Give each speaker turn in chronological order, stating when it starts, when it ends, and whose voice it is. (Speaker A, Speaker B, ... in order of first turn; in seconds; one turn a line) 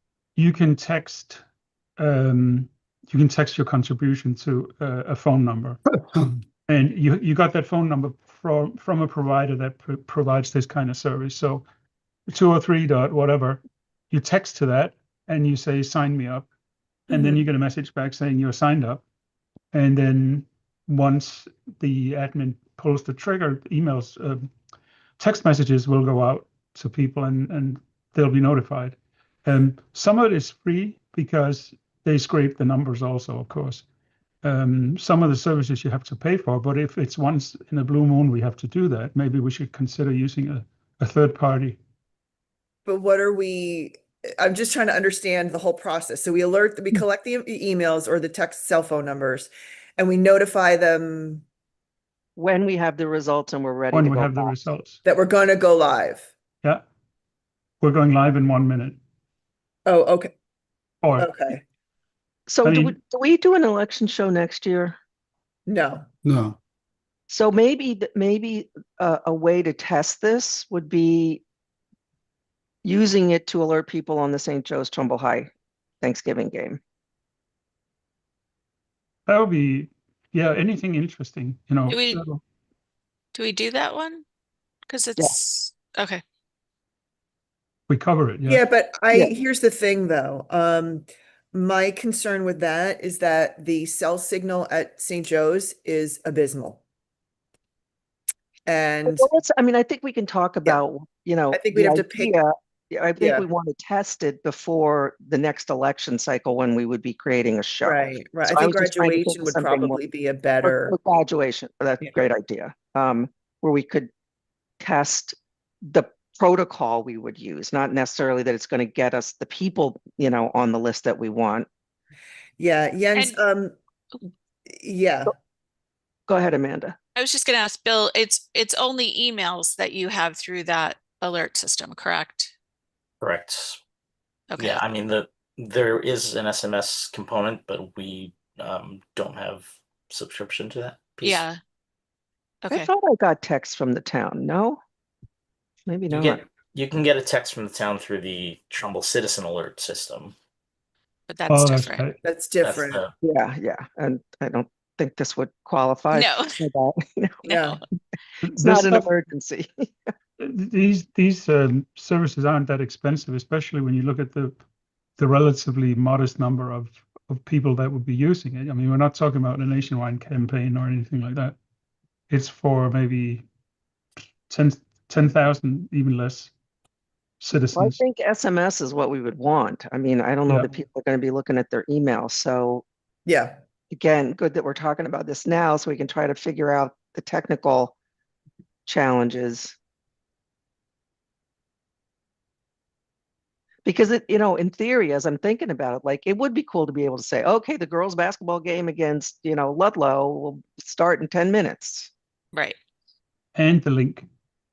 Speaker A: 0.4-1.4
Speaker A: 2.0-5.8
Speaker A: 6.7-11.7
Speaker A: 12.3-13.6
Speaker A: 14.1-16.5
Speaker A: 17.1-19.0
Speaker A: 19.7-24.5
Speaker A: 25.2-33.9
Speaker A: 34.4-41.8
Speaker B: 42.9-51.4
Speaker C: 52.4-54.6
Speaker A: 53.9-55.0
Speaker B: 55.0-56.3
Speaker A: 57.8-59.0
Speaker B: 59.9-60.3
Speaker A: 61.0-61.3
Speaker B: 61.2-61.6
Speaker C: 62.5-65.0
Speaker A: 62.6-63.0
Speaker B: 65.7-66.1
Speaker C: 67.3-71.4
Speaker C: 72.8-76.8
Speaker A: 79.3-82.4
Speaker D: 81.9-82.2
Speaker D: 83.3-84.2
Speaker D: 84.9-86.2
Speaker A: 87.9-88.6
Speaker B: 88.5-96.8
Speaker B: 98.7-99.3
Speaker C: 99.1-110.0
Speaker B: 101.5-102.3
Speaker B: 103.2-103.5
Speaker B: 107.8-111.0
Speaker C: 110.6-114.1
Speaker C: 114.8-121.7
Speaker B: 122.6-123.8
Speaker B: 124.7-125.3
Speaker C: 126.3-127.0
Speaker D: 127.2-132.5
Speaker E: 133.2-133.8
Speaker D: 134.5-134.8
Speaker E: 134.6-141.4
Speaker D: 141.2-141.6
Speaker D: 142.6-142.9
Speaker C: 142.7-144.8
Speaker C: 145.9-146.4
Speaker E: 146.1-150.3
Speaker D: 151.3-152.1
Speaker A: 151.5-152.2
Speaker B: 152.2-153.0
Speaker E: 152.6-153.1
Speaker C: 153.2-157.4
Speaker D: 156.1-156.5
Speaker B: 157.4-157.8
Speaker D: 157.4-157.8
Speaker A: 158.4-159.1
Speaker C: 158.6-160.1
Speaker A: 160.4-164.6
Speaker A: 165.2-171.6
Speaker A: 172.3-173.5
Speaker A: 174.5-176.5
Speaker A: 177.4-178.0
Speaker C: 177.8-182.8
Speaker A: 180.5-180.7
Speaker B: 183.3-183.6
Speaker C: 183.9-187.9
Speaker C: 188.9-189.8
Speaker C: 193.8-202.1
Speaker A: 203.6-204.3